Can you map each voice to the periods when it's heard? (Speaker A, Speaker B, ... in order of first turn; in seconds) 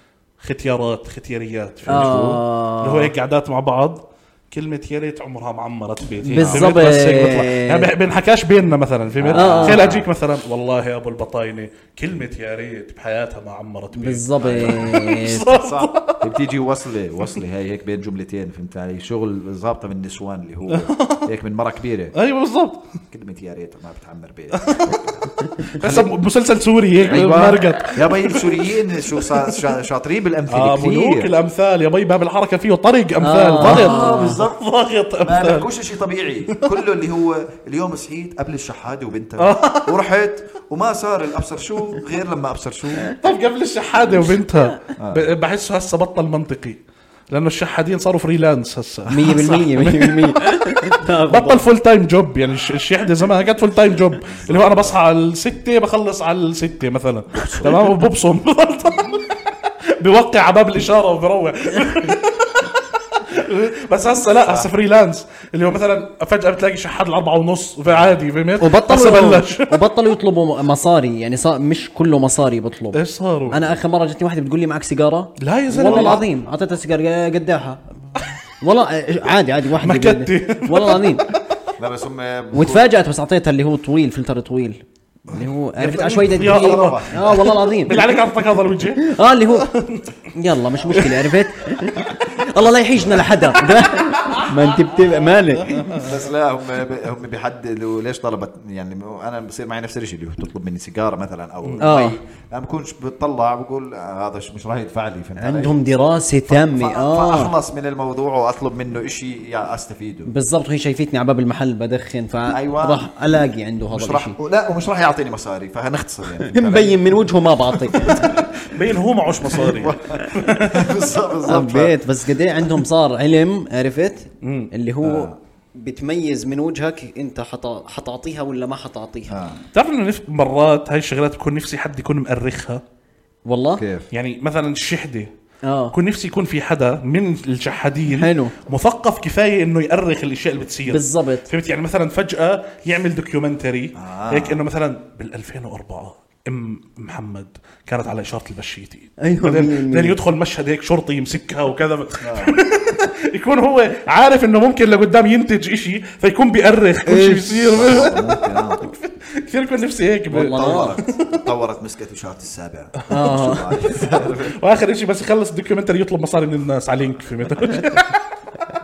Speaker A: 0.4-16.3, 20.7-21.3, 22.2-22.8, 24.5-24.9, 25.6-29.6, 30.5-35.7, 39.4-40.0, 43.2-59.4, 60.0-69.8, 72.9-73.6, 75.4-76.3, 79.8-81.4, 85.8-90.1, 90.9-91.3, 95.7-96.1, 118.6-121.0, 124.4-124.7, 129.7-132.8, 134.1-135.3, 135.9-161.4, 163.0-163.4, 164.2-168.2
Speaker B: 1.9-2.4, 6.4-6.8, 9.2-10.1, 14.4-22.2, 23.1-26.1, 27.0-31.3, 33.6-34.6, 35.2-43.2, 45.0-45.3, 54.3-55.0, 57.3-57.9, 64.4-64.7, 81.8-82.9, 85.3-87.6, 95.9-105.8, 106.5-110.3, 112.5-113.0, 113.9-117.2, 117.8-118.8, 119.5-122.0, 125.0-125.4, 129.3-129.6, 133.8-134.1, 143.9-144.6, 152.2-152.6, 157.6-158.9, 160.4-164.6
Speaker C: 1.9-3.1, 6.2-7.9, 9.3-9.9, 13.9-15.5, 33.2-34.4, 49.1-51.7, 68.6-73.0, 73.5-77.8, 78.6-81.3, 82.5-88.0, 89.0-89.7, 90.3-95.9, 101.8-102.2, 105.4-107.5, 110.3-114.4, 116.5-118.4, 121.5-129.3, 133.5-133.8, 135.6-136.0, 138.1-138.5, 140.9-141.5, 149.2-150.2, 157.1-157.9, 160.3-161.0, 163.1-163.7